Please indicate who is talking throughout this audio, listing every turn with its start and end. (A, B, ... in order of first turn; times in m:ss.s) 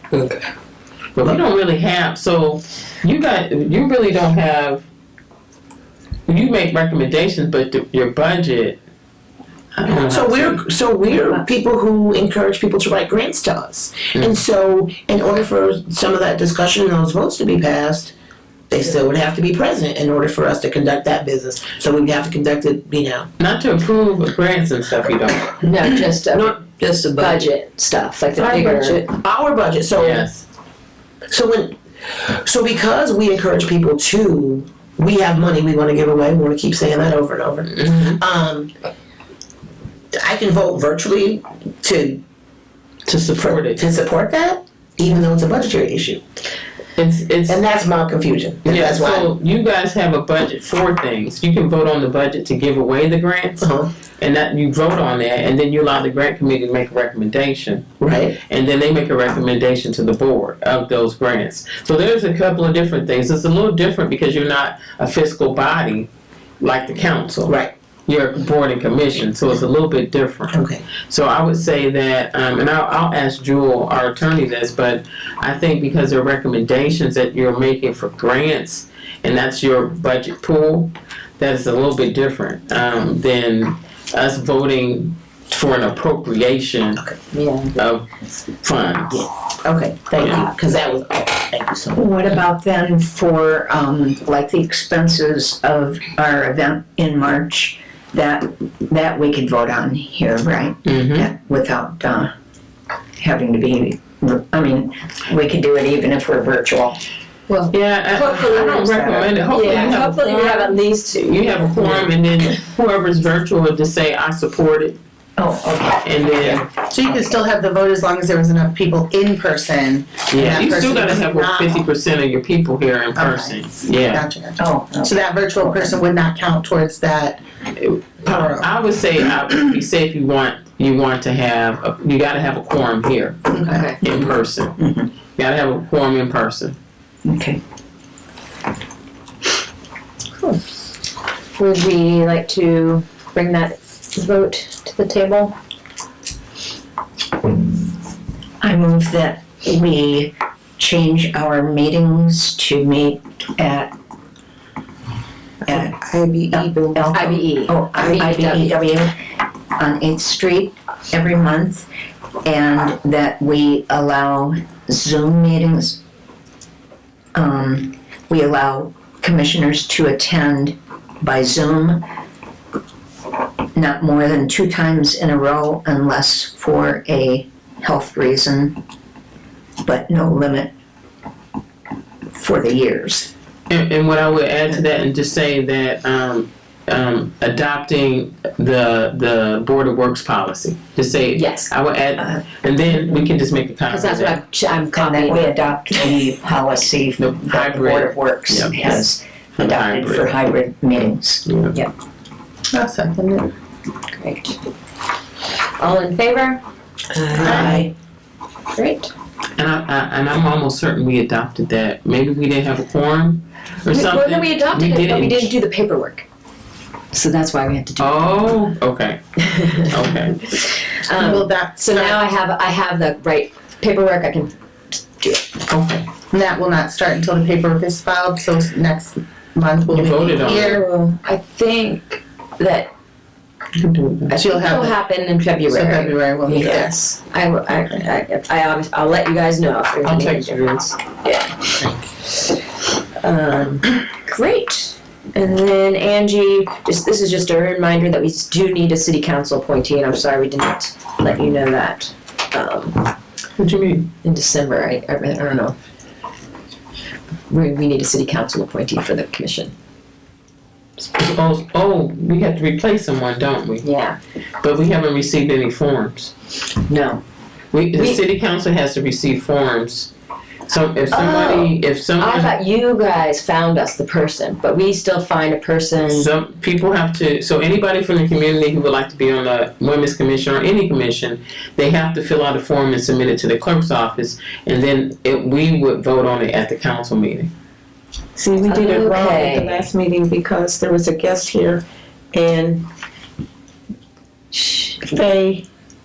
0:00.1-0:00.4 A
0:01.2-0:04.9 B
0:06.3-0:08.8 B
0:09.8-0:10.6 B
0:09.9-0:18.1 A
0:14.2-0:14.4 B
0:18.7-0:23.3 A
0:23.4-0:25.6 B
0:25.6-0:29.1 C
0:26.4-0:27.3 A
0:28.3-0:30.2 A
0:30.0-0:30.4 B
0:31.3-0:31.7 A
0:32.1-0:32.6 D
0:32.6-0:38.7 A
0:37.7-0:38.2 B
0:40.2-0:42.2 A
0:43.1-0:43.8 B
0:43.5-0:46.2 A
0:47.0-0:47.6 B
0:47.5-0:49.3 A
0:48.6-0:53.7 B
0:53.6-0:53.9 A
0:54.2-0:57.9 B
0:58.0-0:58.4 A
0:58.5-1:06.1 B
1:06.6-1:07.6 B
1:07.5-1:07.7 A
1:08.1-1:27.0 B
1:10.5-1:10.8 A
1:27.3-1:27.7 C
1:27.8-1:29.3 B
1:29.6-1:31.9 A
1:30.2-1:30.5 B
1:32.0-1:42.3 E
1:40.8-1:41.3 B
1:43.2-1:47.0 E
1:47.7-1:55.0 B
1:48.1-1:52.1 C
1:49.0-1:49.7 E
1:55.4-1:57.4 E
1:56.0-1:56.6 B
1:56.9-2:01.7 F
2:00.3-2:04.2 B
2:00.4-2:01.0 D
2:03.2-2:07.4 F
2:04.6-2:06.0 E
2:07.8-2:13.4 B
2:13.7-2:14.0 C
2:14.0-2:14.8 B
2:14.1-2:15.1 E
2:15.4-2:16.8 B
2:17.2-2:17.6 E
2:21.6-2:25.6 C
2:28.6-2:33.9 E
2:35.7-2:36.0 E
2:35.8-2:37.0 D
2:36.5-2:39.1 E
2:37.1-2:38.7 C
2:39.8-2:41.9 E
2:42.4-2:46.0 E
2:47.4-2:52.0 E
2:53.8-2:58.8 E
2:59.8-3:00.7 E
3:02.3-3:03.3 E
3:03.7-3:14.4 B
3:11.4-3:11.7 C
3:13.9-3:15.6 C
3:15.0-3:21.5 E
3:17.2-3:20.4 B
3:21.4-3:21.8 B
3:22.7-3:23.5 F
3:22.8-3:23.3 D
3:24.1-3:24.6 C
3:25.8-3:26.6 C
3:27.2-3:27.9 A
3:27.4-3:27.9 D
3:27.5-3:27.8 E
3:28.7-3:29.1 C
3:29.6-3:35.5 B
3:33.9-3:36.3 C
3:37.1-3:38.6 C
3:38.0-3:40.6 B
3:39.5-3:45.5 C
3:41.2-3:42.1 F
3:45.7-3:46.1 B
3:46.3-3:50.8 F
3:49.9-3:50.8 B
3:50.1-3:50.8 D
3:50.4-3:52.9 C
3:53.8-3:54.3 B
3:54.3-4:01.8 C
3:54.6-3:54.9 F
3:55.7-3:56.8 F
3:56.5-3:56.9 D
4:00.0-4:00.8 B
4:02.3-4:02.6 C
4:03.2-4:13.1 C
4:13.6-4:14.1 B
4:14.2-4:15.8 C
4:17.5-4:19.7 C
4:21.1-4:23.8 B
4:23.8-4:24.2 C
4:24.6-4:26.3 B
4:26.9-4:27.2 C
4:27.7-4:30.1 B
4:27.9-4:28.2 C
4:30.7-4:32.5 B
4:31.1-4:36.3 C
4:36.1-4:47.5 B
4:48.4-4:51.8 D
4:48.7-4:49.8 C
4:52.3-4:52.8 D
4:54.5-4:55.0 C
4:55.1-4:55.6 D